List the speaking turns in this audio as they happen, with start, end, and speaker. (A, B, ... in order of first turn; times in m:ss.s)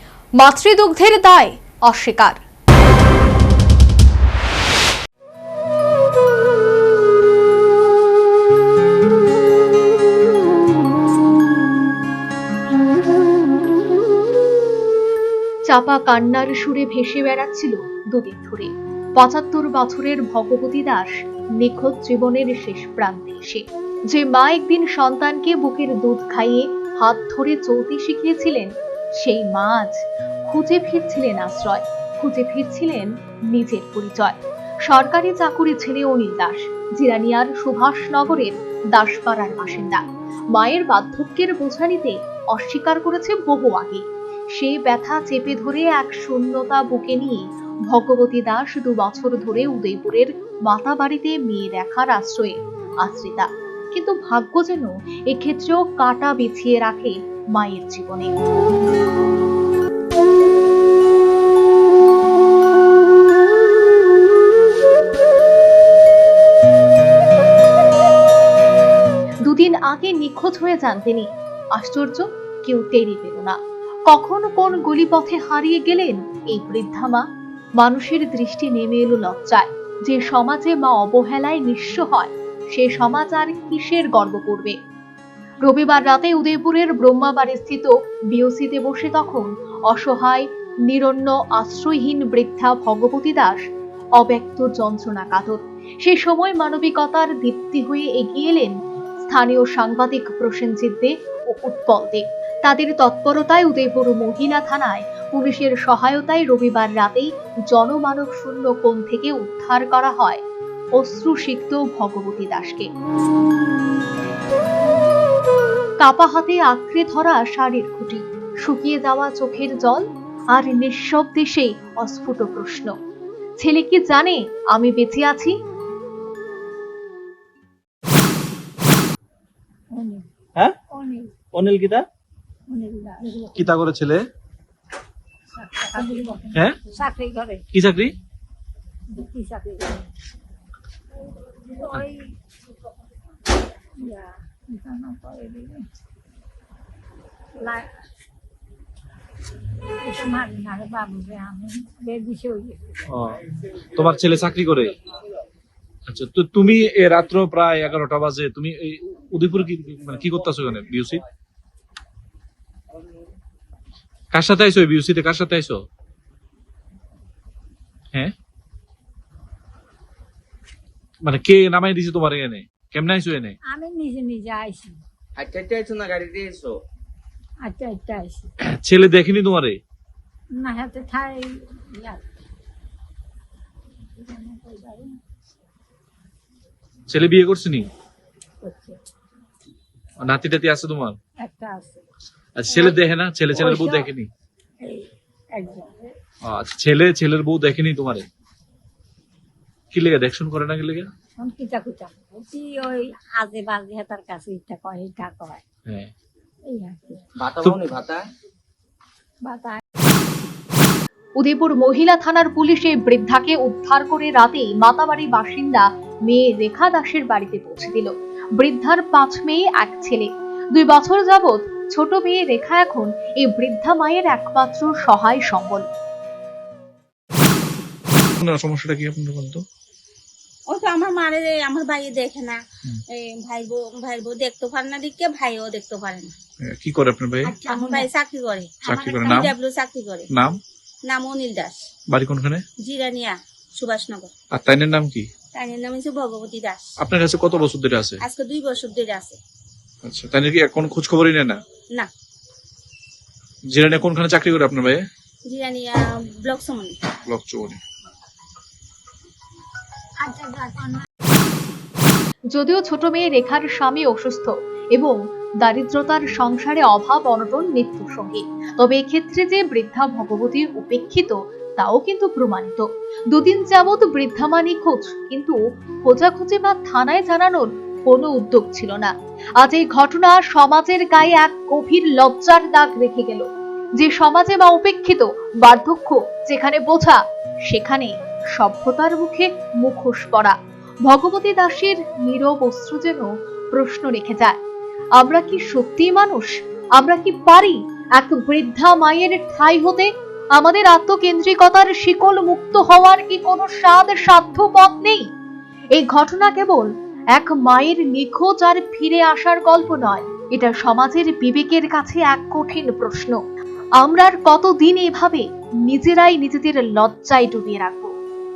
0:00.4-0:02.4 A
0:15.7-0:40.0 A
0:40.5-0:58.3 A
1:09.4-1:13.6 A
1:14.1-1:17.2 A
1:17.8-1:24.8 A
1:25.6-1:33.6 A
1:34.2-1:38.8 A
1:39.3-1:50.4 A
1:51.0-1:52.9 A
1:56.0-2:03.0 A
2:03.6-2:05.6 A
2:09.9-2:10.3 B
2:10.9-2:11.4 B
2:11.6-2:12.0 C
2:12.7-2:13.7 B
2:13.6-2:14.2 C
2:15.5-2:17.6 B
2:17.7-2:18.1 C
2:19.1-2:20.1 B
2:21.4-2:22.3 B
2:23.8-2:25.9 B
2:27.6-2:27.9 B
2:30.0-2:33.0 B
2:33.1-2:33.4 C
2:34.0-2:35.0 C
2:36.1-2:41.2 C
2:44.3-2:45.8 C
2:51.2-2:53.6 C
2:53.6-2:55.0 B
2:55.4-2:56.8 D
2:57.6-2:58.5 B
2:58.6-2:59.8 C
3:00.5-3:02.3 B
3:04.1-3:05.2 B
3:07.1-3:07.9 C
3:08.6-3:09.0 B
3:10.2-3:11.2 C
3:11.4-3:12.0 B
3:12.6-3:14.3 C
3:12.7-3:13.0 B
3:13.6-3:14.1 B
3:14.8-3:16.1 B
3:16.4-3:18.3 C
3:19.9-3:21.1 C
3:21.4-3:25.6 B
3:25.9-3:26.1 C
3:26.7-3:27.3 B
3:27.4-3:28.2 D
3:29.4-3:29.8 B
3:31.4-3:45.9 A
3:48.4-3:49.6 C
3:50.7-3:52.6 E
3:53.1-3:56.4 E
3:56.6-3:57.6 C
3:57.4-3:58.1 B
3:57.6-4:00.3 E
3:58.8-3:59.5 C
3:58.9-3:59.4 B
4:00.3-4:00.6 C
4:01.0-4:01.9 E
4:02.1-4:02.6 C
4:02.8-4:04.3 E
4:04.5-4:05.3 C
4:05.5-4:06.9 E
4:07.0-4:08.2 C
4:08.2-4:09.4 E
4:10.0-4:11.6 C
4:13.7-4:15.1 C
4:15.4-4:17.0 E
4:17.3-4:17.8 C
4:20.2-4:21.1 B
4:22.5-4:43.5 A
4:44.0-4:54.6 A
4:55.2-5:05.3 A
5:06.0-5:13.4 A
5:14.0-5:18.1 A